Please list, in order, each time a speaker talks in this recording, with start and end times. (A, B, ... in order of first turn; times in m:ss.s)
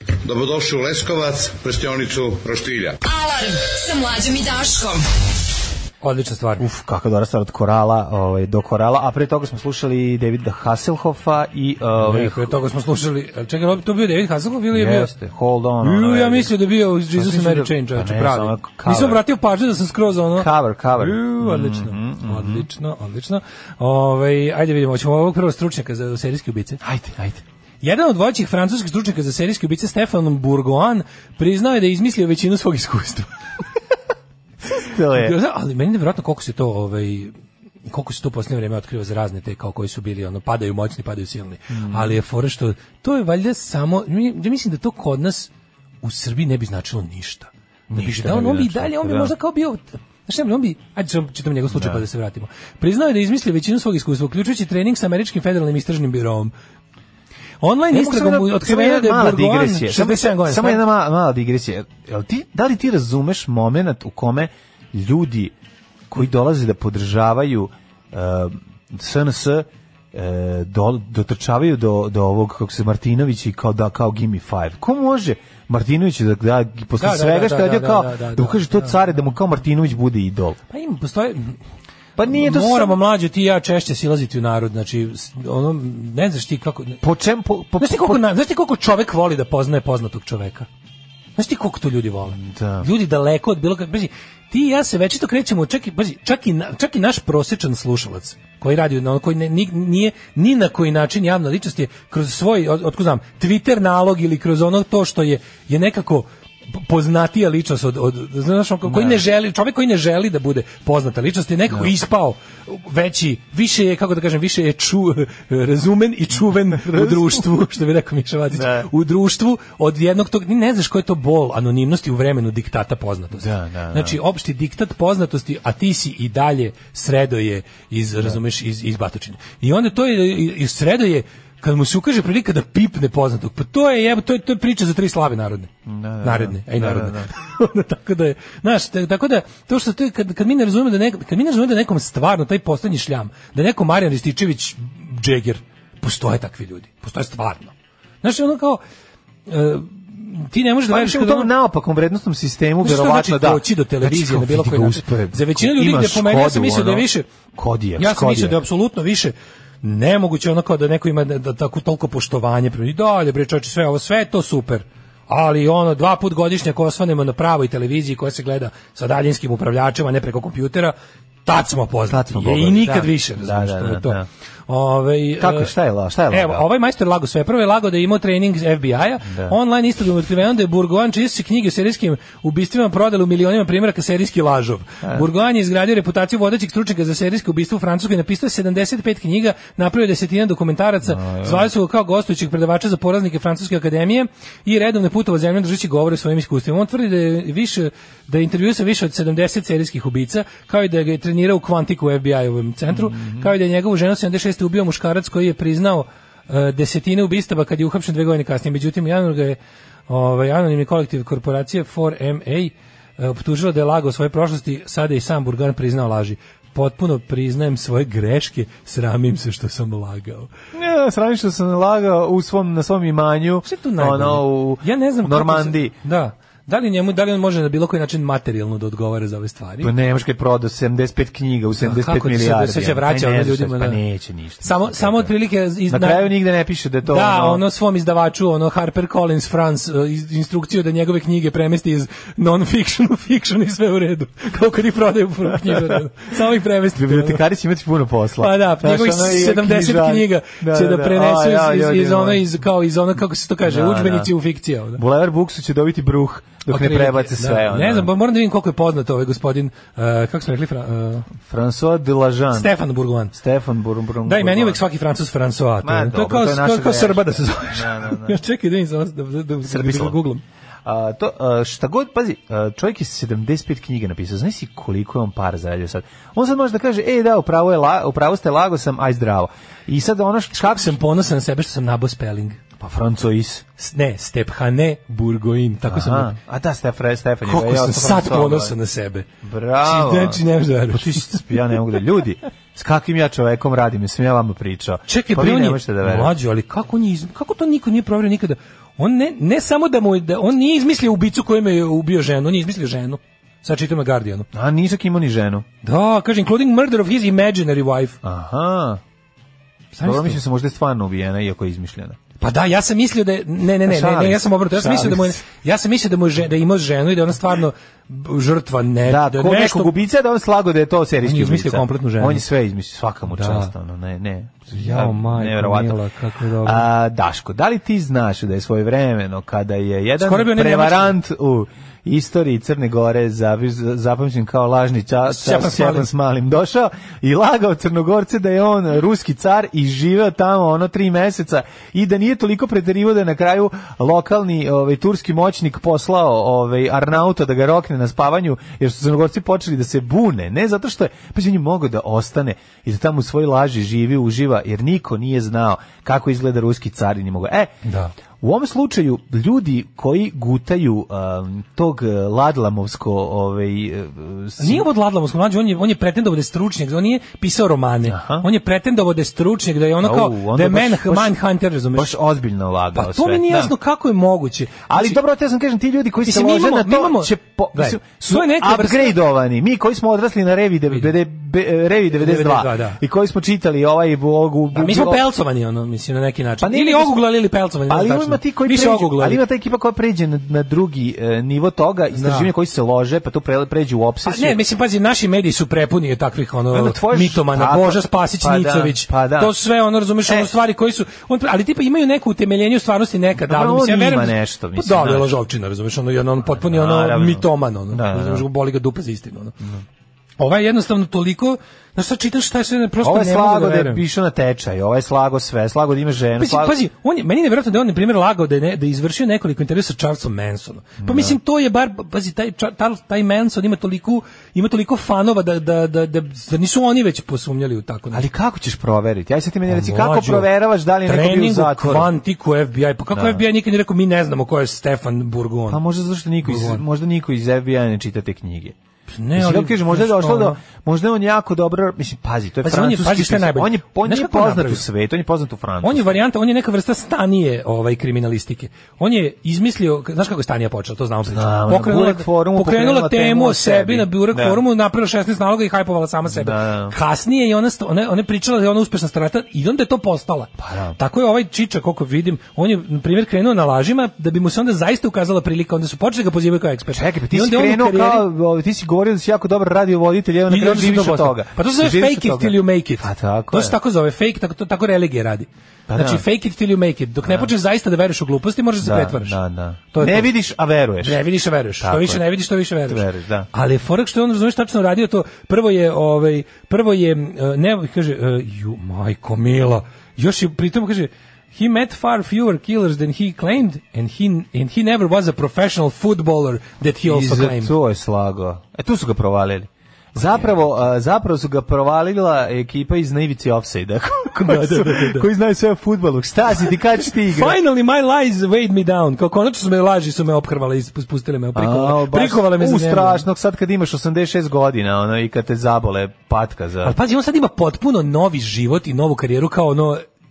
0:00.2-0:03.0 A
0:03.0-0:05.0 B
0:06.0-0:06.6 C
0:06.6-0:12.5 D
0:12.0-0:15.1 C
0:14.7-0:19.2 D
0:15.8-0:26.8 C
0:20.4-0:22.6 D
0:26.8-0:27.4 D
0:27.8-0:33.2 C
0:34.7-0:35.3 D
0:35.1-0:37.3 C
0:37.9-0:45.5 C
0:41.7-0:42.1 D
0:46.0-0:56.5 C
0:47.9-0:49.3 D
0:51.7-0:52.0 D
0:57.6-1:00.8 C
0:57.9-1:05.5 D
1:06.1-1:20.6 D
1:17.0-1:19.0 C
1:20.7-1:21.6 C
1:22.2-1:23.0 D
1:22.3-1:27.0 C
1:27.0-1:28.2 D
1:27.8-1:30.7 C
1:31.4-2:15.7 C
1:32.3-1:32.9 D
1:48.9-1:49.2 D
1:56.7-1:57.4 D
1:58.5-1:58.9 D
2:03.3-2:04.2 D
2:15.8-2:17.3 D
2:16.2-2:28.8 C
2:29.5-2:31.5 C
2:30.9-2:38.6 D
2:32.8-2:37.2 C
2:38.0-2:50.9 C
2:51.4-2:55.7 C
2:52.1-2:54.2 D
2:55.4-2:56.6 D
2:56.3-3:40.5 C
2:59.2-2:59.6 D
3:11.0-3:11.7 D
3:22.9-3:23.5 D
3:40.7-3:45.9 D
3:43.6-3:49.9 C
3:49.8-3:55.3 D
3:51.8-3:54.0 C
3:54.6-3:56.4 C
3:55.9-3:57.6 D
3:57.0-4:07.4 C
4:05.6-4:06.0 D
4:07.0-4:12.4 D
4:08.4-4:15.0 C
4:13.6-4:14.3 D
4:15.0-4:18.1 D
4:16.7-4:21.3 C
4:21.4-4:22.7 D
4:22.5-4:23.3 C
4:23.3-4:24.8 D
4:24.2-4:30.4 C
4:25.8-4:28.4 D
4:29.6-4:30.2 D
4:30.8-4:41.0 D
4:40.6-4:42.6 C
4:42.8-4:43.6 D
4:43.8-4:46.4 C
4:45.9-4:48.7 D
4:47.4-4:49.3 C
4:49.4-4:56.3 D
4:49.8-4:51.4 C
4:55.1-5:04.5 C
5:04.5-5:05.6 D
5:05.8-5:08.2 C
5:08.2-5:09.0 D
5:09.9-5:10.4 C
5:10.0-5:12.2 D
5:12.4-5:19.9 C
5:13.8-5:15.4 D
5:19.0-5:26.0 D
5:21.2-5:22.4 C
5:23.3-5:23.7 C
5:24.7-5:26.8 C
5:26.6-5:57.8 D
5:30.2-5:31.2 C
5:35.2-5:36.1 C
5:57.8-5:58.1 C
5:58.4-6:04.8 D
6:04.6-6:12.1 C
6:08.1-6:08.4 D
6:10.0-6:11.4 D
6:11.9-6:13.7 D
6:12.9-6:15.2 C
6:14.9-6:25.2 D
6:16.2-6:19.1 C
6:22.1-6:23.0 C
6:24.7-6:29.4 C
6:26.6-6:27.2 D
6:27.9-6:34.6 D
6:32.1-6:32.5 C
6:34.2-6:49.6 C
6:36.7-6:39.5 D
6:40.2-6:40.5 D
6:43.4-6:45.3 D
6:46.4-6:48.4 D
6:50.4-6:54.0 C
6:53.0-6:56.8 D
6:56.4-7:08.2 C
7:01.0-7:01.4 D
7:08.1-7:12.1 D
7:09.6-7:10.5 C
7:11.0-7:15.8 C
7:13.1-7:13.4 D
7:15.7-7:18.7 D
7:16.4-7:16.8 C
7:19.1-7:20.6 C
7:19.3-7:26.2 D
7:22.6-7:24.8 C
7:25.8-7:48.2 C
7:31.2-7:34.6 D
7:36.2-7:36.9 D
7:40.6-7:41.0 D
7:46.9-7:53.8 D
7:50.5-7:59.4 C
7:55.9-7:56.2 D
7:57.2-7:57.5 D
7:58.8-8:01.2 D
7:59.9-8:00.3 C
8:01.0-8:17.8 C
8:01.8-8:02.2 D
8:02.8-8:03.5 D
8:17.0-8:27.6 D
8:24.3-8:25.2 C
8:27.2-8:33.2 C
8:31.5-8:37.0 D
8:36.8-8:40.0 C